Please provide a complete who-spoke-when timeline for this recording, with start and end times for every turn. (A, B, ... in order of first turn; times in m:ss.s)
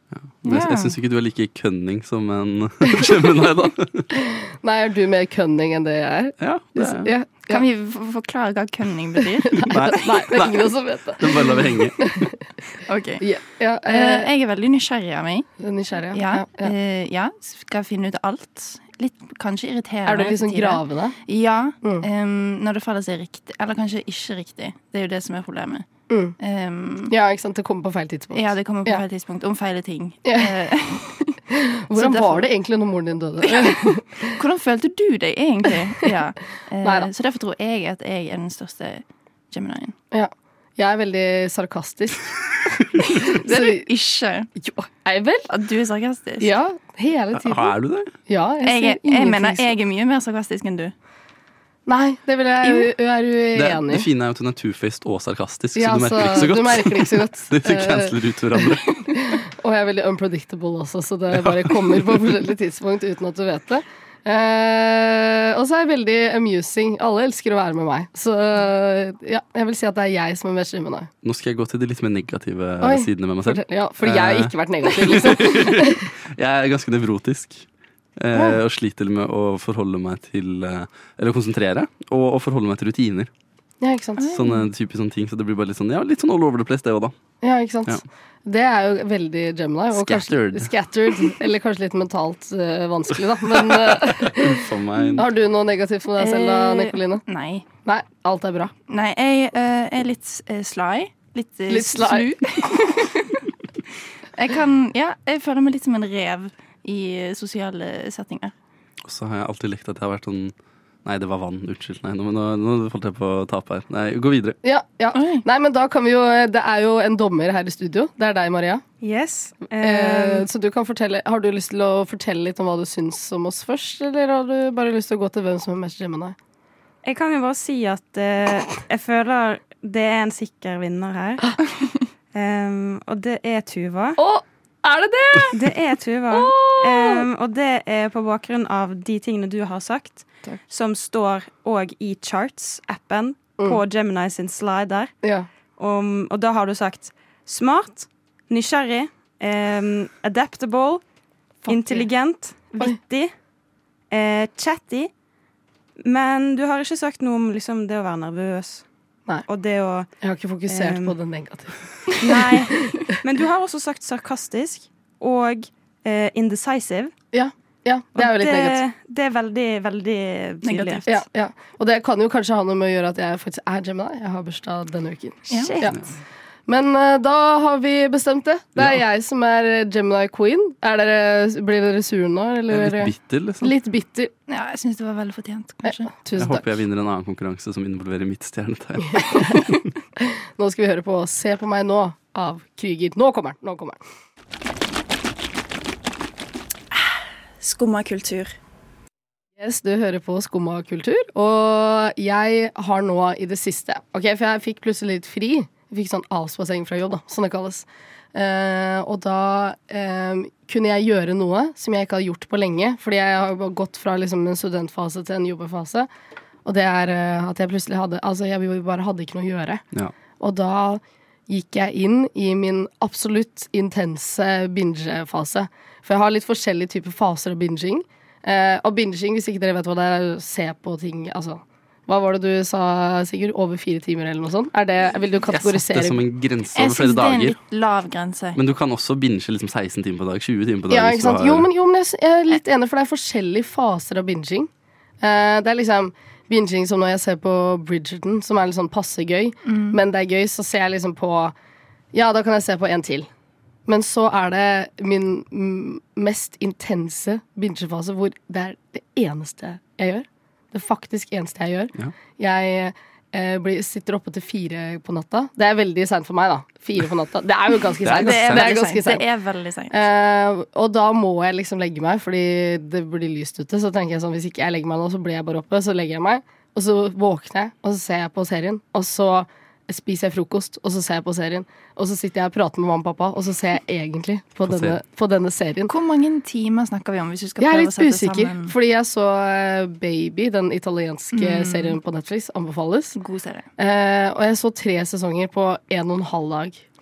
0:00.1-0:04.1 A
0:00.4-0:01.0 B
0:04.1-0:07.6 C
0:06.4-0:07.1 A
0:07.5-0:09.8 B
0:09.5-0:12.3 C
0:09.7-0:12.3 A
0:12.9-0:13.2 B
0:13.2-0:14.3 C
0:13.9-0:15.5 B
0:15.6-0:16.7 C
0:16.1-0:25.9 B
0:20.1-0:21.2 C
0:26.1-0:26.4 C
0:26.4-0:27.1 B
0:27.1-0:29.0 C
0:28.3-0:31.4 B
0:30.2-0:30.5 C
0:31.5-0:34.3 C
0:32.0-0:32.5 B
0:33.5-0:40.0 B
0:36.8-0:37.1 C
0:40.1-0:42.3 C
0:43.2-0:43.8 C
0:43.2-0:44.5 B
0:44.6-0:45.5 C
0:45.5-0:46.5 B
0:46.4-0:47.8 C
0:47.3-0:48.1 A
0:48.3-0:49.7 C
0:48.6-0:50.9 B
0:51.9-0:54.1 C
0:52.6-0:52.9 B
0:53.6-0:58.9 A
0:55.8-1:11.1 C
1:01.3-1:02.2 A
1:11.2-1:23.3 A
1:12.8-1:16.1 C
1:23.8-1:24.3 C
1:24.2-1:24.7 B
1:24.3-1:27.2 A
1:27.4-1:34.6 C
1:29.9-1:30.7 A
1:33.5-1:35.3 A
1:35.2-1:37.2 C
1:36.2-1:37.7 B
1:37.8-1:38.7 C
1:38.9-1:43.4 B
1:41.7-1:42.3 C
1:44.4-1:48.5 B
1:49.0-1:50.5 A
1:51.0-1:54.6 A
1:54.6-1:58.8 C
1:55.2-1:55.4 B
1:59.0-2:00.5 D
1:59.8-2:06.4 C
2:07.0-2:11.6 D
2:12.3-2:14.2 D
2:14.2-2:15.6 C
2:15.5-2:25.1 D
2:16.3-2:17.3 C
2:25.8-2:31.0 D
2:31.6-2:32.1 C
2:31.6-2:33.3 D
2:34.1-2:35.1 D
2:36.0-2:38.8 D
2:39.5-2:40.1 D
2:40.2-2:42.5 C
2:40.7-2:41.2 D
2:42.2-2:47.1 D
2:47.3-2:48.8 C
2:48.2-2:51.2 D
2:50.6-2:51.0 B
2:51.1-2:56.0 C
2:55.5-2:55.8 B
2:55.6-2:56.0 D
2:56.7-3:04.3 C
3:02.7-3:03.7 A
3:04.5-3:06.1 B
3:05.8-3:06.7 C
3:06.4-3:09.7 A
3:09.1-3:14.0 C
3:16.9-3:18.5 B
3:19.6-3:36.1 C
3:36.6-3:39.8 C
3:40.4-3:56.2 C
3:55.5-3:57.6 A
3:56.8-3:58.6 B
3:58.6-4:01.7 A
4:00.9-4:04.7 C
4:05.2-4:11.5 C
4:09.7-4:10.0 B
4:12.1-4:13.3 C
4:13.9-4:29.2 C
4:28.0-4:28.7 A
4:28.2-4:30.0 B
4:29.9-4:45.9 C
4:44.7-4:45.0 A
4:45.9-4:48.7 B
4:47.6-4:53.2 C
4:51.3-4:52.0 B
4:53.2-4:53.7 B
4:53.8-4:56.8 C